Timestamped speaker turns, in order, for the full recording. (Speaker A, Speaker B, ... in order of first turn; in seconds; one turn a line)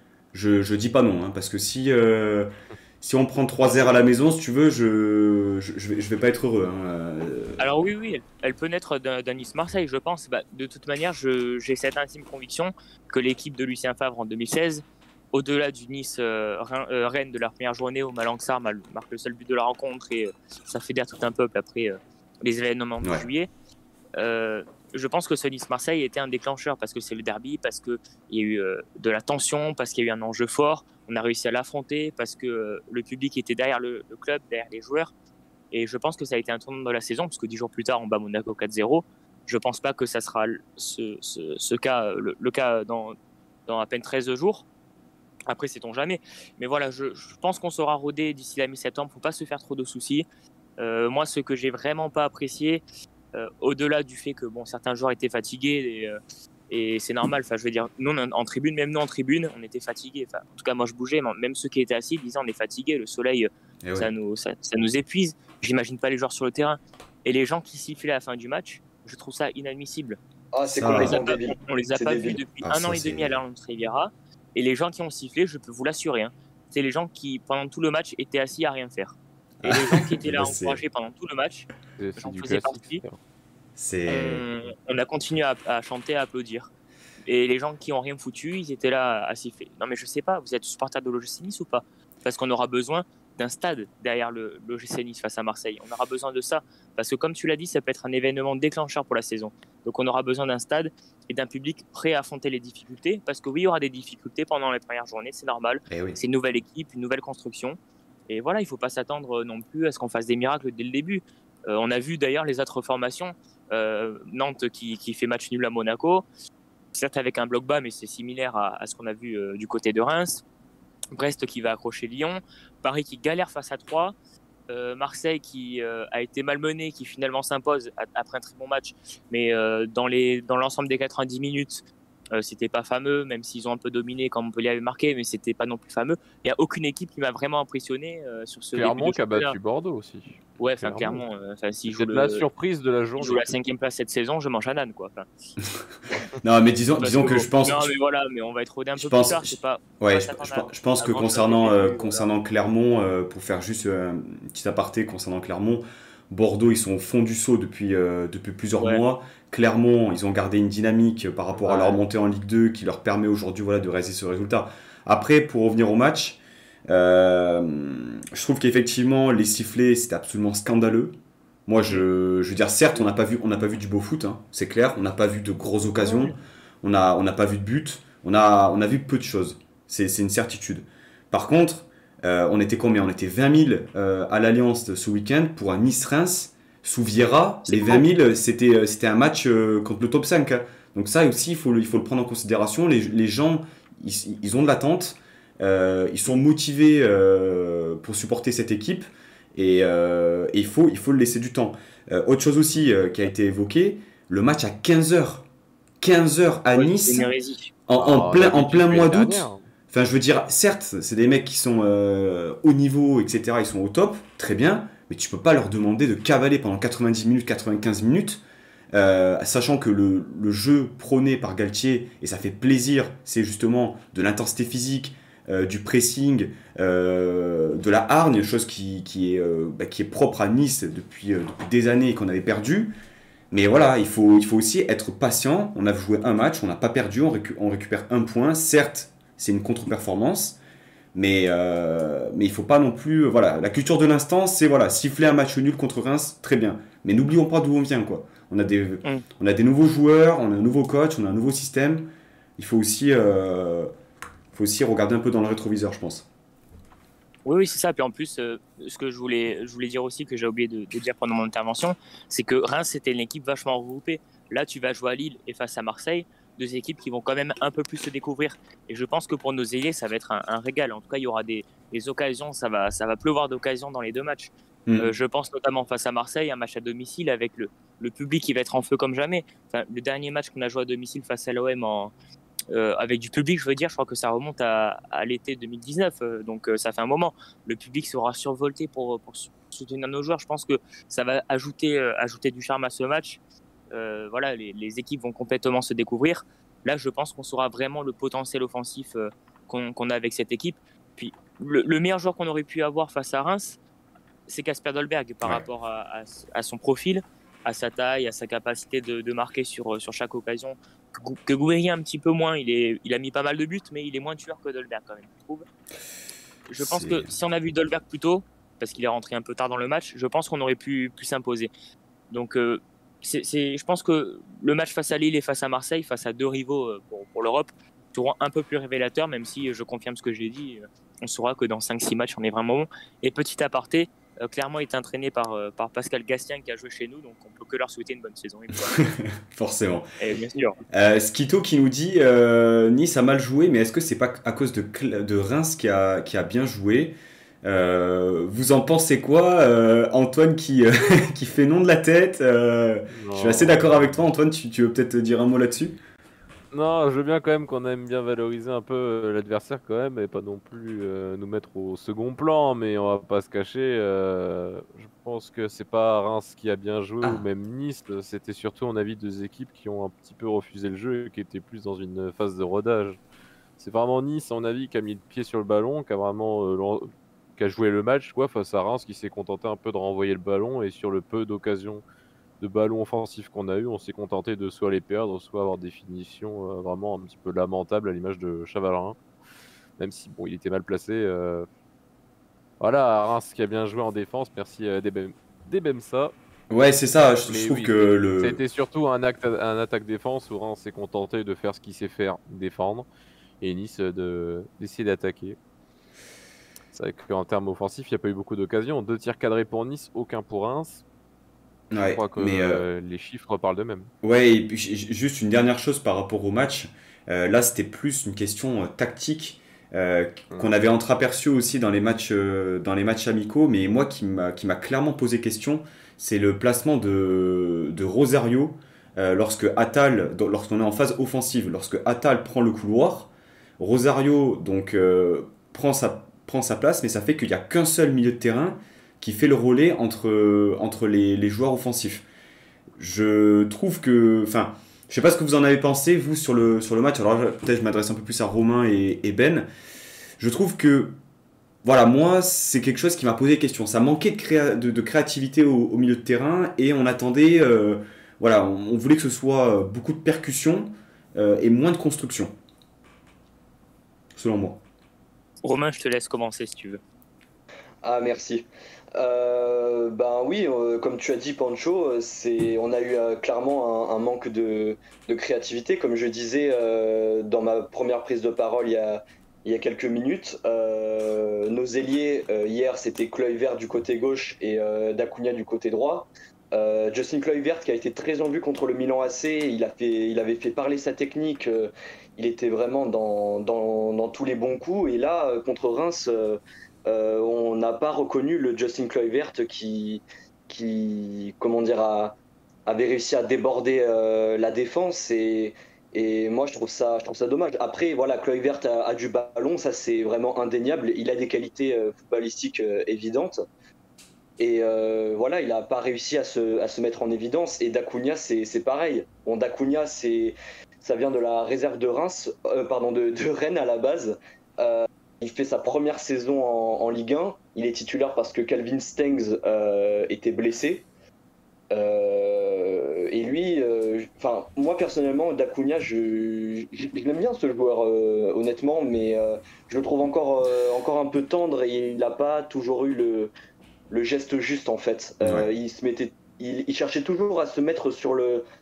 Speaker A: 0.3-7.7
Speaker B: 7.6-23.5
Speaker B: 24.1-35.1
Speaker B: 35.7-43.1
Speaker B: 43.7-44.6
Speaker B: 45.5-50.2
Speaker B: 50.8-52.8
Speaker B: 53.3-56.2
Speaker B: 56.7-70.2
Speaker A: 63.8-64.1
Speaker C: 70.5-72.4
Speaker A: 70.7-71.2
Speaker B: 70.9-83.0
Speaker A: 72.6-73.4
Speaker A: 79.6-80.8
Speaker D: 82.0-83.2
Speaker A: 83.8-84.4
Speaker B: 84.1-86.7
Speaker B: 87.2-107.8
Speaker A: 105.9-106.2
Speaker B: 108.3-116.2
Speaker B: 116.9-120.4
Speaker B: 121.1-124.1
Speaker B: 124.7-139.6
Speaker D: 138.7-141.2
Speaker B: 140.6-142.4
Speaker D: 141.9-143.4
Speaker B: 143.2-145.3
Speaker A: 146.4-147.9
Speaker B: 147.0-152.3
Speaker A: 149.0-171.1
Speaker B: 161.6-162.0
Speaker A: 171.7-205.4
Speaker B: 175.9-176.3
Speaker B: 187.7-188.1
Speaker A: 206.0-207.3
Speaker B: 206.7-207.7
Speaker A: 207.9-232.9
Speaker D: 207.9-209.6
Speaker A: 233.5-240.6
Speaker A: 241.1-253.9
Speaker A: 254.5-256.3
Speaker B: 257.4-282.1
Speaker B: 282.7-293.4
Speaker B: 293.9-303.8
Speaker B: 304.5-315.6
Speaker B: 316.7-321.7
Speaker A: 316.8-317.3
Speaker B: 322.3-339.0
Speaker A: 338.9-340.1
Speaker B: 340.2-340.8
Speaker A: 340.9-356.0
Speaker D: 353.1-354.1
Speaker D: 356.7-373.2
Speaker D: 373.8-382.0
Speaker D: 382.6-389.2
Speaker D: 390.0-391.7
Speaker D: 392.8-396.3
Speaker A: 396.7-398.6
Speaker D: 397.5-403.1
Speaker D: 403.6-405.6
Speaker D: 406.9-411.0
Speaker A: 411.9-412.8
Speaker D: 412.0-414.1
Speaker A: 414.2-442.2
Speaker A: 443.0-449.7
Speaker A: 450.4-451.2
Speaker A: 451.8-462.5
Speaker A: 464.3-464.8
Speaker B: 465.6-467.0
Speaker C: 468.0-513.6
Speaker C: 514.6-531.0
Speaker C: 531.9-543.5
Speaker C: 544.1-548.6
Speaker A: 545.4-545.7